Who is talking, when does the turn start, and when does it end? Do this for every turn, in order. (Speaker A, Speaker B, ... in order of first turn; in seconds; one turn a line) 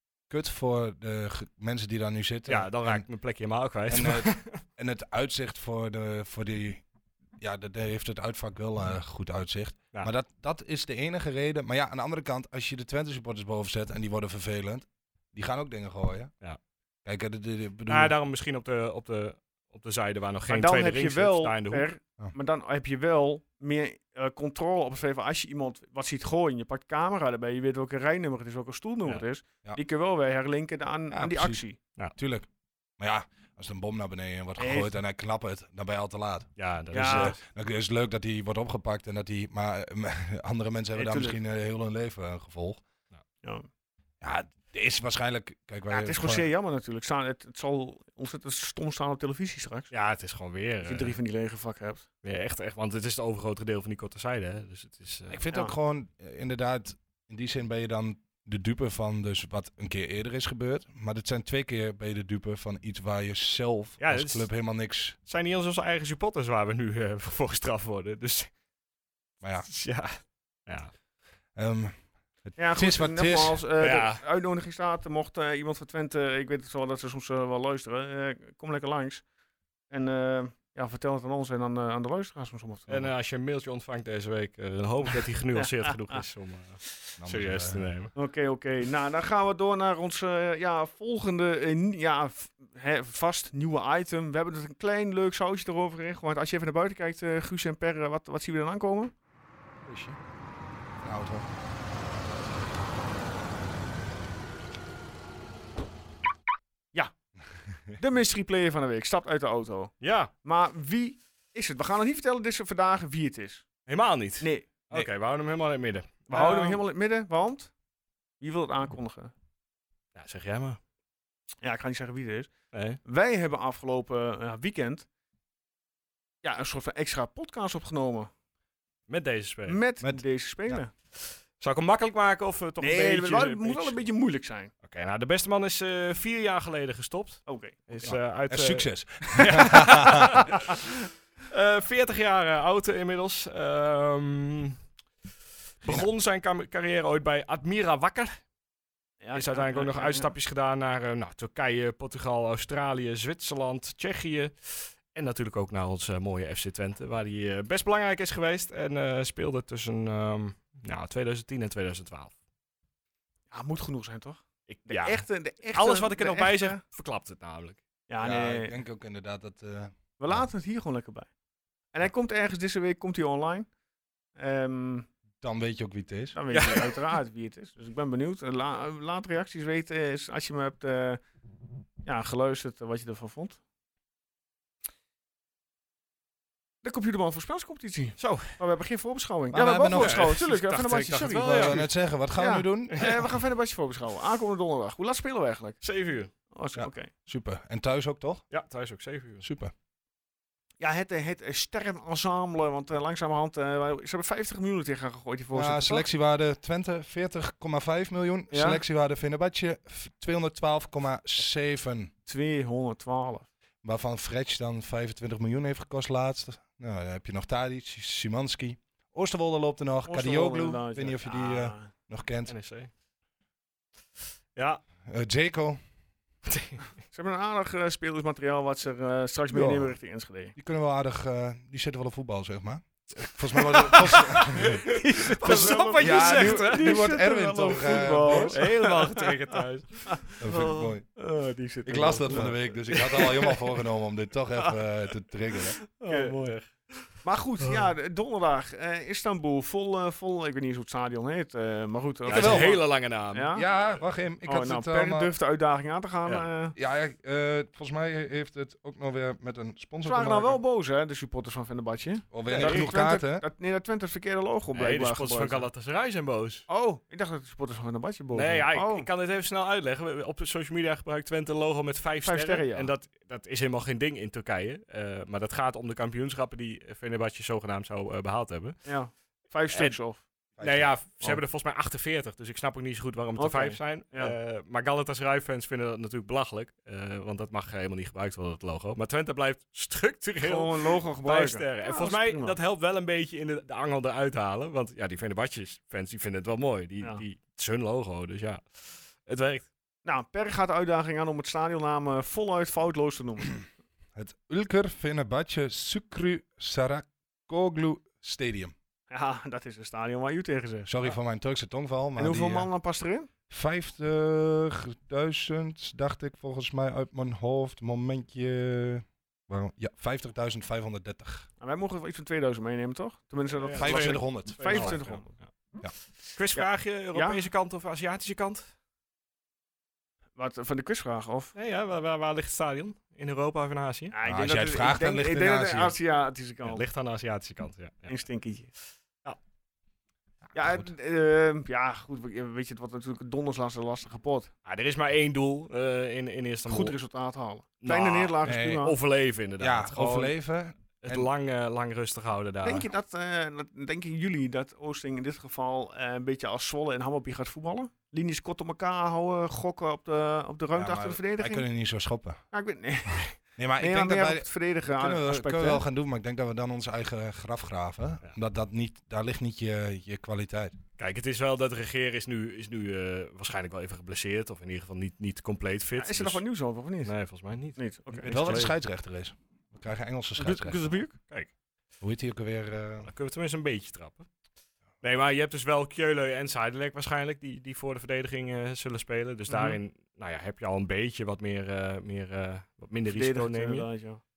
Speaker A: 0.3-3.0
Speaker B: 2.5-4.6
Speaker A: 3.9-6.8
Speaker A: 7.4-16.3
Speaker A: 17.1-18.1
Speaker B: 17.9-21.9
Speaker C: 20.5-31.8
Speaker A: 31.1-31.6
Speaker A: 32.2-32.5
Speaker A: 33.0-42.8
Speaker C: 34.6-34.9
Speaker B: 36.6-37.4
Speaker C: 36.9-37.4
Speaker C: 41.0-41.4
Speaker A: 44.2-46.5
Speaker C: 45.9-49.9
Speaker B: 49.9-51.2
Speaker C: 50.8-52.1
Speaker B: 52.2-55.4
Speaker A: 55.3-65.2
Speaker B: 64.0-64.5
Speaker B: 65.3-68.5
Speaker A: 69.4-69.7
Speaker B: 69.7-70.1
Speaker B: 70.7-70.9
Speaker A: 71.6-73.6
Speaker C: 72.6-79.2
Speaker B: 73.8-74.2
Speaker C: 79.9-83.1
Speaker B: 82.9-88.1
Speaker C: 85.6-86.2
Speaker A: 87.2-87.9
Speaker C: 88.2-99.1
Speaker B: 99.9-100.2
Speaker A: 101.0-101.5
Speaker C: 108.0-113.7
Speaker B: 110.0-110.3
Speaker B: 113.9-116.8
Speaker C: 114.4-115.1
Speaker C: 116.3-117.7
Speaker C: 118.4-119.3
Speaker B: 120.2-120.8
Speaker C: 121.6-122.5
Speaker B: 122.7-123.0
Speaker C: 123.0-125.1
Speaker C: 126.4-128.3
Speaker B: 129.1-129.8
Speaker C: 129.7-130.9
Speaker A: 130.0-130.8
Speaker B: 131.2-134.0
Speaker C: 132.8-134.7
Speaker B: 134.8-140.9
Speaker C: 137.5-138.1
Speaker A: 138.0-140.5
Speaker B: 141.5-144.8
Speaker B: 145.8-148.3
Speaker C: 149.2-150.3
Speaker B: 149.3-162.3
Speaker C: 163.5-166.8
Speaker B: 164.7-167.8
Speaker C: 168.1-168.8
Speaker A: 168.2-170.4
Speaker C: 170.2-171.3
Speaker C: 171.9-173.7
Speaker C: 174.4-175.1
Speaker A: 175.4-176.4
Speaker C: 176.3-181.2
Speaker B: 176.5-177.0
Speaker C: 182.0-183.6
Speaker C: 186.8-195.8
Speaker B: 188.2-188.6
Speaker A: 189.5-190.3
Speaker B: 190.0-191.9
Speaker A: 191.3-193.1
Speaker B: 193.0-193.2
Speaker B: 195.8-196.3
Speaker C: 196.5-197.1
Speaker A: 196.8-198.4
Speaker B: 198.5-199.4
Speaker A: 199.4-199.7
Speaker C: 200.8-206.0
Speaker A: 205.5-212.1
Speaker C: 208.5-208.8
Speaker C: 212.3-213.5
Speaker A: 213.8-222.5
Speaker C: 220.1-221.9
Speaker B: 222.5-222.9
Speaker B: 224.6-224.8
Speaker A: 225.1-225.8
Speaker B: 226.5-226.8
Speaker C: 227.1-230.5
Speaker A: 229.5-229.9
Speaker A: 230.6-238.6
Speaker B: 233.7-237.2
Speaker C: 233.8-239.6
Speaker B: 237.9-240.9
Speaker C: 240.1-243.3
Speaker A: 240.4-241.1
Speaker A: 241.9-245.8
Speaker B: 243.0-243.4
Speaker C: 246.0-246.5
Speaker B: 246.0-247.9
Speaker C: 247.2-253.7
Speaker B: 252.3-253.5
Speaker A: 252.3-252.8
Speaker A: 253.5-255.3
Speaker C: 254.4-256.8
Speaker A: 256.8-260.6
Speaker C: 260.0-265.7
Speaker A: 262.3-263.4
Speaker B: 262.5-262.9
Speaker B: 264.7-266.6
Speaker C: 266.7-269.1
Speaker B: 268.3-278.9
Speaker C: 272.2-272.9
Speaker C: 278.9-280.2
Speaker B: 279.7-280.0
Speaker A: 280.6-281.4
Speaker B: 280.6-299.7
Speaker C: 283.4-284.4
Speaker C: 290.4-292.6
Speaker C: 300.0-303.6
Speaker A: 304.1-308.7
Speaker C: 309.1-311.1
Speaker A: 310.9-312.7
Speaker C: 312.2-313.3
Speaker A: 313.5-321.5
Speaker C: 321.6-325.4
Speaker B: 323.6-325.4
Speaker A: 323.8-325.0
Speaker B: 326.3-328.7
Speaker C: 326.5-327.4
Speaker C: 330.4-331.5
Speaker B: 331.6-334.1
Speaker C: 334.1-336.8
Speaker A: 334.2-336.0
Speaker B: 336.6-338.2
Speaker C: 338.1-338.7
Speaker A: 340.5-340.9
Speaker C: 340.5-344.5
Speaker B: 344.6-347.0
Speaker C: 346.7-348.9
Speaker B: 347.8-350.4
Speaker A: 348.4-348.8
Speaker A: 349.6-351.3
Speaker B: 351.0-352.9
Speaker C: 352.6-361.6
Speaker A: 360.7-362.4
Speaker C: 362.5-365.8
Speaker A: 363.6-370.8
Speaker B: 371.0-376.4
Speaker C: 376.0-377.1
Speaker B: 377.1-378.8
Speaker C: 377.8-378.5
Speaker A: 378.2-380.9
Speaker C: 380.4-381.2
Speaker A: 382.0-383.1
Speaker B: 383.0-384.3
Speaker B: 385.0-393.9
Speaker C: 389.5-389.8
Speaker C: 393.1-394.2